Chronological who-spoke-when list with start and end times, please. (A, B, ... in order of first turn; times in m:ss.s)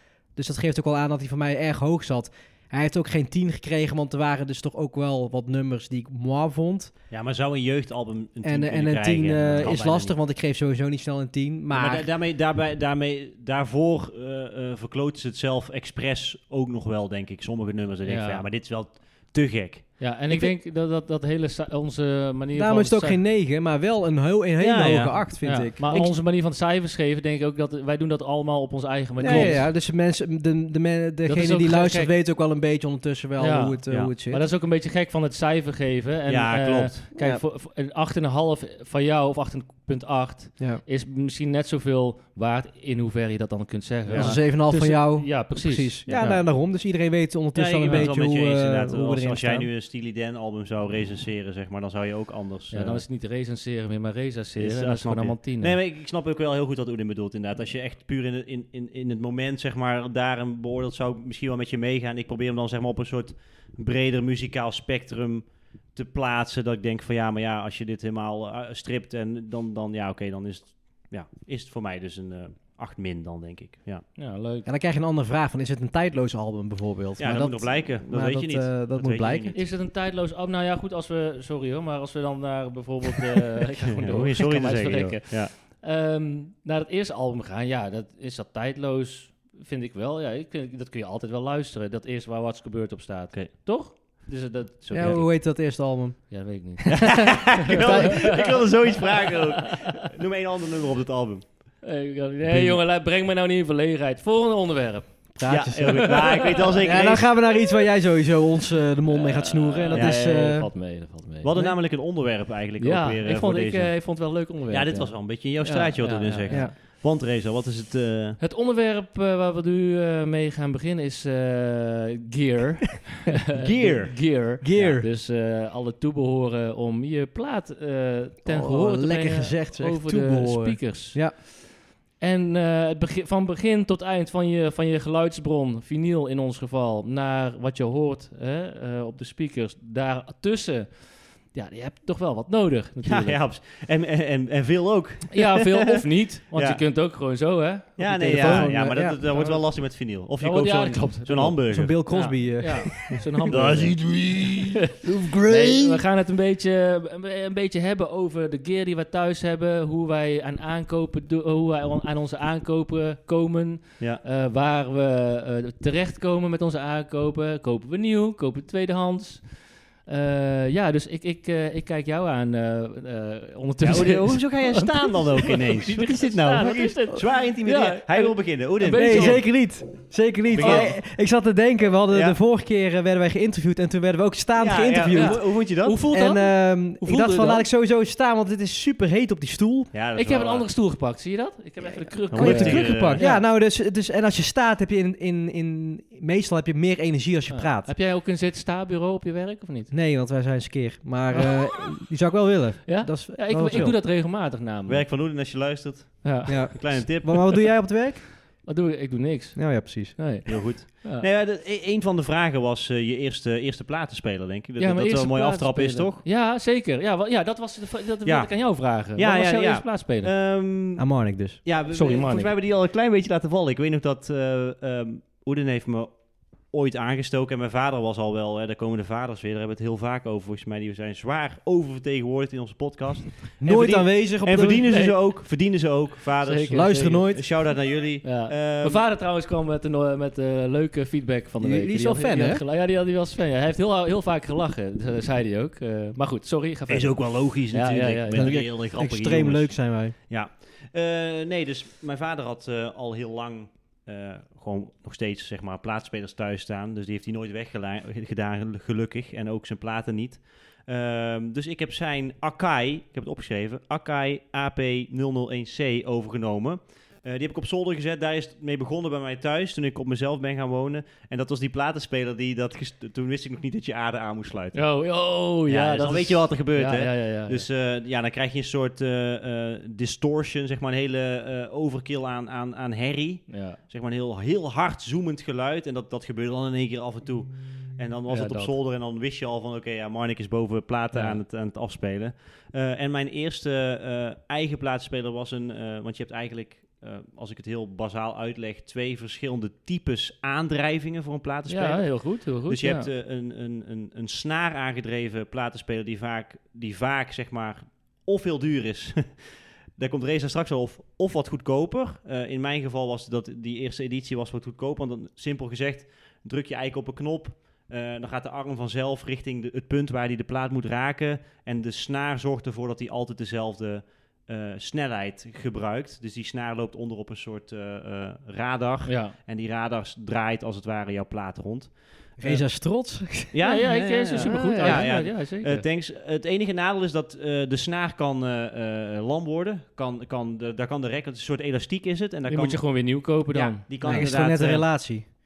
0:00.3-0:06.9 A
0:07.1-0:10.2 B
0:08.4-0:12.1 A
0:11.7-0:20.1 B
0:18.0-0:18.4 C
0:20.0-0:23.2 C
0:22.5-0:26.0 A
0:24.6-0:26.2 B
0:25.4-0:29.7 C
0:29.2-0:34.4 A
0:29.2-0:29.6 B
0:31.2-0:32.1 C
0:33.4-0:46.4 C
0:36.3-0:37.1 B
0:37.2-0:37.4 A
0:44.1-0:44.4 B
0:44.1-0:49.7 A
0:47.5-0:53.0 B
0:52.7-0:55.8 C
0:54.6-1:14.1 B
1:14.2-1:14.7 C
1:14.6-1:19.5 A
1:17.2-1:19.6 B
1:19.5-1:35.7 C
1:23.9-1:25.5 B
1:34.8-1:35.2 B
1:34.9-1:38.3 A
1:36.3-1:38.7 C
1:36.9-1:41.8 B
1:41.8-1:46.4 C
1:42.5-1:42.8 B
1:45.3-1:50.7 A
1:45.4-1:47.3 B
1:49.1-1:51.5 C
1:49.9-1:50.3 B
1:51.4-1:58.4 B
1:52.8-1:56.7 C
1:55.6-1:55.9 A
1:56.4-1:56.7 A
1:58.4-2:23.4 C
2:03.5-2:04.3 B
2:04.6-2:05.1 A
2:08.4-2:11.4 A
2:23.0-2:25.9 B
2:25.3-2:34.2 C
2:26.5-2:26.8 B
2:28.0-2:32.4 B
2:28.3-2:29.2 A
2:31.7-2:33.6 A
2:33.4-2:35.4 B
2:35.0-2:35.9 A
2:35.4-2:59.5 C
2:53.8-2:59.5 B
2:58.9-3:09.9 A
3:00.5-3:01.0 B
3:00.6-3:00.9 C
3:02.1-3:02.4 B
3:04.6-3:06.0 B
3:05.1-3:07.6 C
3:09.9-3:10.7 B
3:10.1-3:13.4 C
3:12.2-3:17.9 A
3:12.3-3:13.2 B
3:17.5-3:19.9 C
3:19.9-3:24.0 A
3:22.8-3:25.1 C
3:23.6-3:24.2 B
3:24.8-3:27.7 B
3:26.2-3:27.2 C
3:26.4-3:28.3 A
3:28.6-3:31.3 C
3:29.6-3:30.4 A
3:30.4-3:36.2 B
3:34.8-3:40.3 C
3:38.2-3:41.0 B
3:41.0-3:41.6 A
3:41.6-3:59.0 B
3:41.9-3:42.5 C
3:53.6-3:54.9 A
3:56.4-3:57.5 C
3:56.7-3:57.4 A
3:58.2-4:08.5 C
4:01.6-4:02.6 A
4:06.9-4:34.9 B
4:08.3-4:10.1 A
4:34.7-4:37.6 C
4:35.7-5:32.6 B
4:43.5-4:43.8 C
4:48.3-4:48.7 C
4:51.1-4:51.4 C
5:01.7-5:03.1 C
5:29.0-5:29.3 C
5:32.4-5:35.1 A
5:33.5-5:44.9 B
5:33.6-5:35.8 C
5:42.5-5:44.3 C
5:44.0-5:45.3 A